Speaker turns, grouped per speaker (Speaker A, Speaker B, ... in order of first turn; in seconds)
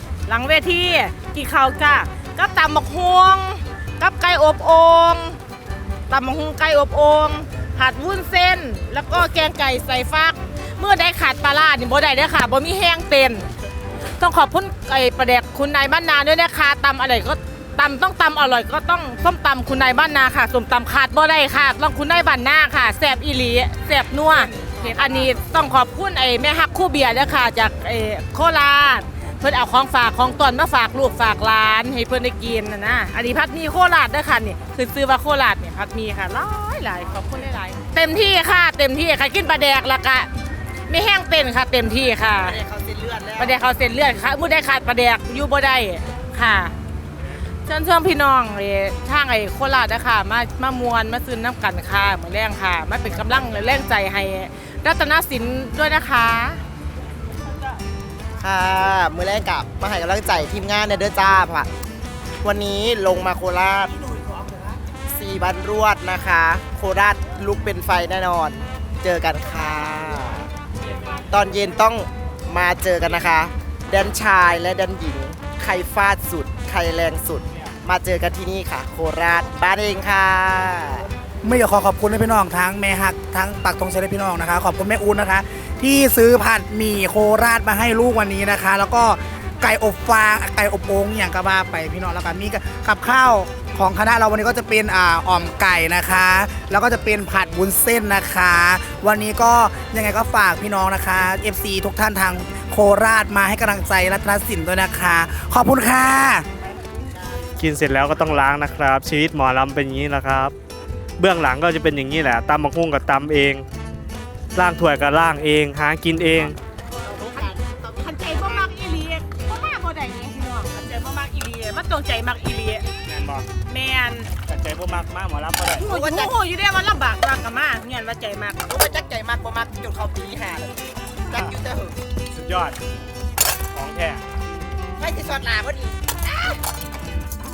Speaker A: 0.3-5.4, 6.1-13.5, 14.2-40.3, 40.9-42.6, 43.4-46.7, 47.6-56.6, 117.0-122.8, 123.7-124.3, 125.8-128.6
Speaker B: 42.3-43.6, 58.4-61.7, 62.4-64.0, 65.0-70.5, 71.3-81.0, 125.9-126.3, 128.7-132.0, 135.0-136.2
Speaker C: 81.4-106.4
Speaker D: 107.6-110.5, 111.2-113.7, 114.5-116.6, 123.1-123.5, 124.5-125.9, 132.3-132.8, 133.7-134.2